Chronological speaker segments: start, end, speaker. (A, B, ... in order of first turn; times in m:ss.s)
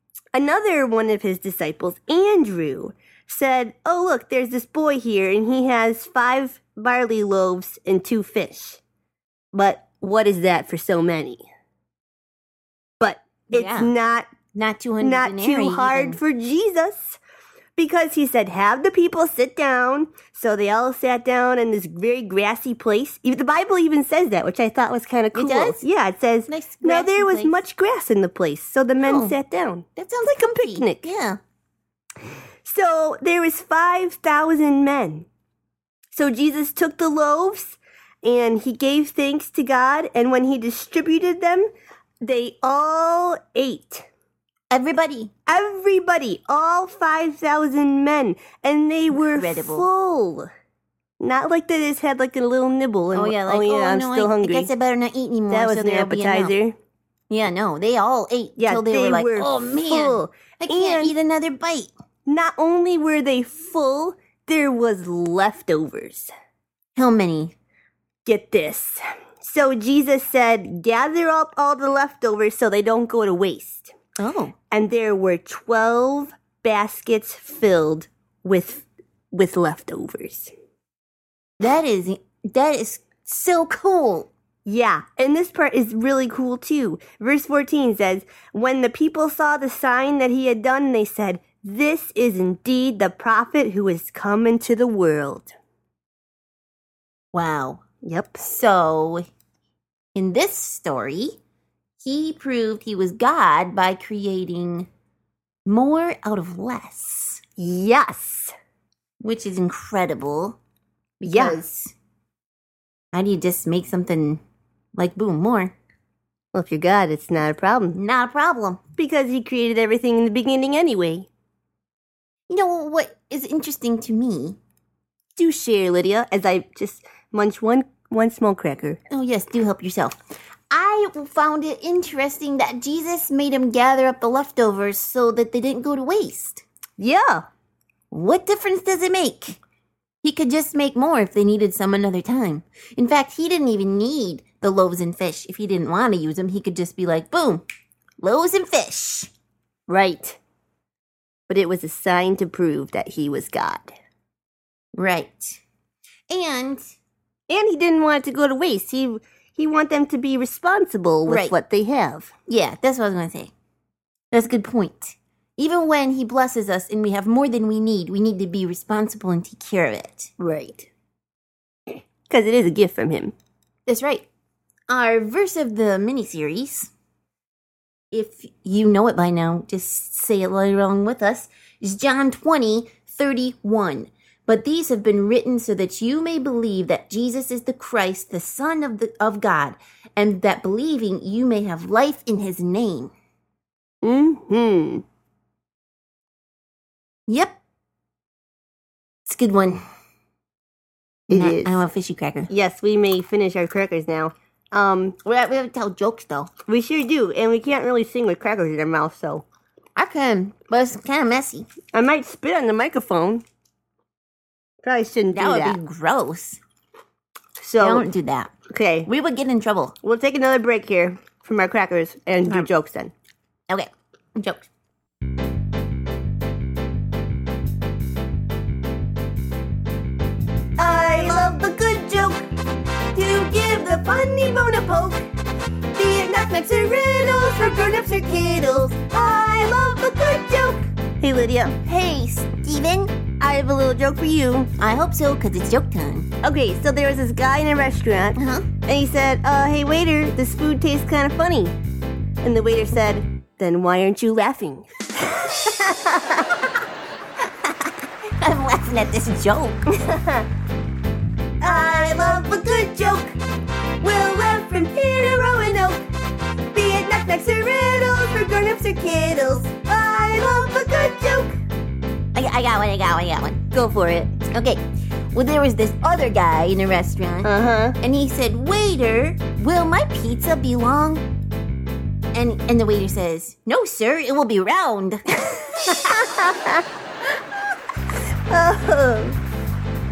0:00.3-0:08.8 A
0:09.5-0:11.4 A
0:13.0-0:14.3 A
0:13.5-0:13.9 B
0:14.5-0:16.2 B
0:15.0-0:17.2 A
0:17.8-0:31.0 A
0:25.3-0:25.8 B
0:26.5-0:27.6 B
0:29.0-0:29.4 B
0:30.0-0:31.4 B
0:32.6-0:35.3 A
0:36.1-0:41.7 A
0:42.2-0:44.1 A
0:44.7-0:45.3 B
0:45.5-0:50.5 A
0:49.1-0:49.8 B
0:51.2-0:54.7 A
0:53.1-0:56.5 B
0:55.5-0:56.8 A
0:57.3-1:01.9 B
0:58.6-1:01.2 A
1:02.2-1:06.3 A
1:07.0-1:07.5 B
1:08.2-1:13.9 A
1:14.2-1:14.6 B
1:14.7-1:20.5 A
1:21.6-1:24.3 B
1:24.6-1:35.5 A
1:37.3-1:37.8 B
1:38.0-1:38.5 A
1:38.4-1:39.3 B
1:40.1-1:41.4 B
1:42.0-1:44.9 B
1:45.6-1:47.4 B
1:47.6-1:48.5 A
1:49.2-1:50.6 B
1:51.2-1:51.9 B
1:51.2-1:51.6 A
1:53.1-1:54.4 B
1:54.9-1:55.7 B
1:56.5-1:58.0 A
1:57.9-1:58.8 B
1:59.0-2:01.3 A
2:02.5-2:04.6 B
2:05.4-2:09.0 A
2:09.1-2:10.2 B
2:10.7-2:16.6 B
2:17.0-2:17.4 A
2:18.1-2:19.6 B
2:20.2-2:27.6 B
2:28.2-2:29.3 B
2:29.9-2:30.4 A
2:31.5-2:33.9 A
2:34.9-2:35.6 B
2:36.3-2:36.8 B
2:37.5-2:42.3 A
2:41.3-2:41.5 B
2:42.5-2:43.5 B
2:44.3-2:50.8 B
2:52.3-2:53.3 A
2:53.9-2:54.2 B
2:54.9-2:56.9 B
2:58.1-3:13.1 B
3:14.0-3:15.0 A
3:17.3-3:17.6 B
3:19.2-3:19.8 B
3:21.3-3:21.8 A
3:21.3-3:22.5 B
3:22.5-3:25.2 A
3:25.2-3:26.5 B
3:26.7-3:29.4 A
3:30.0-3:31.7 B
3:31.9-3:33.4 A
3:34.8-3:35.8 A
3:35.3-3:36.6 B
3:37.6-3:38.1 A
3:37.8-3:38.5 B
3:38.7-3:39.1 A
3:39.1-3:40.0 B
3:40.0-3:43.1 A
3:43.7-3:44.7 B
3:50.8-3:52.5 A
3:53.1-3:55.2 A
3:55.9-4:01.8 A
4:01.8-4:03.1 B
4:03.4-4:04.7 A
4:04.8-4:06.3 B
4:06.4-4:11.7 A
4:08.4-4:08.7 B
4:12.4-4:16.4 A
4:18.4-4:19.9 B
4:20.0-4:20.4 A
4:21.6-4:23.4 A
4:24.0-4:26.0 A
4:26.7-4:31.6 A
4:32.4-4:33.6 B
4:33.7-4:34.4 A
4:34.5-4:34.8 B
4:35.3-4:41.2 B
4:37.4-4:38.0 A
4:42.3-4:45.8 B
4:45.8-4:46.8 A
4:48.5-4:49.4 A